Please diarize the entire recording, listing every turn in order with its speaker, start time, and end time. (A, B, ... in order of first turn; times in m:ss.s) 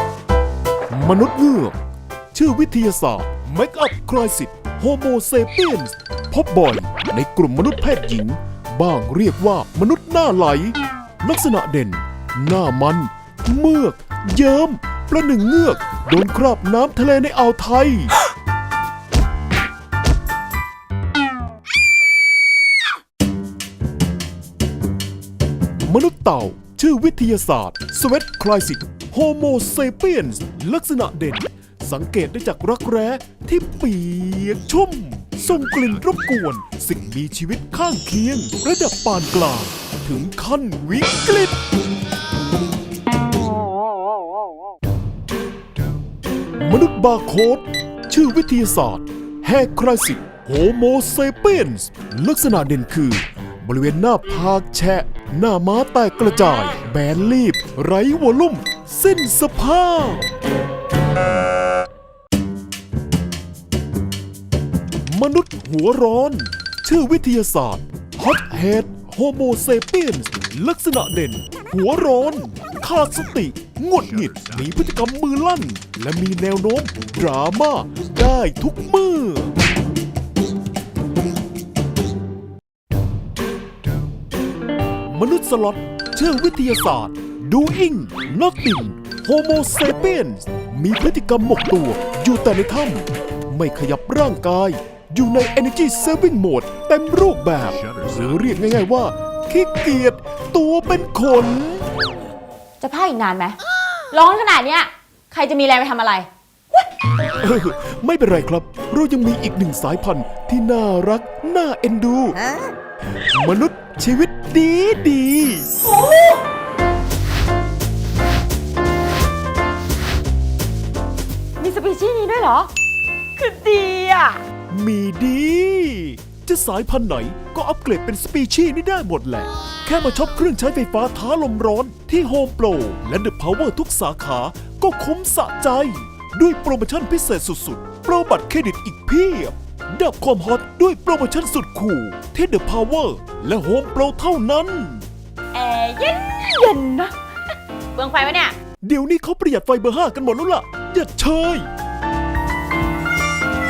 0:00.9-0:01.8 A
0:02.3-0:18.1 A
0:25.8-0:41.6 A
0:46.6-1:00.3 A
1:05.0-1:19.5 A
1:25.1-1:41.9 A
1:42.8-1:43.6 B
1:44.1-1:46.8 B
1:47.4-1:52.5 A
1:53.2-1:55.7 A
2:01.6-2:02.7 B
2:03.4-2:04.4 B
2:04.7-2:25.1 A
2:25.5-2:27.1 B
2:27.9-2:28.6 B
2:28.8-2:31.7 A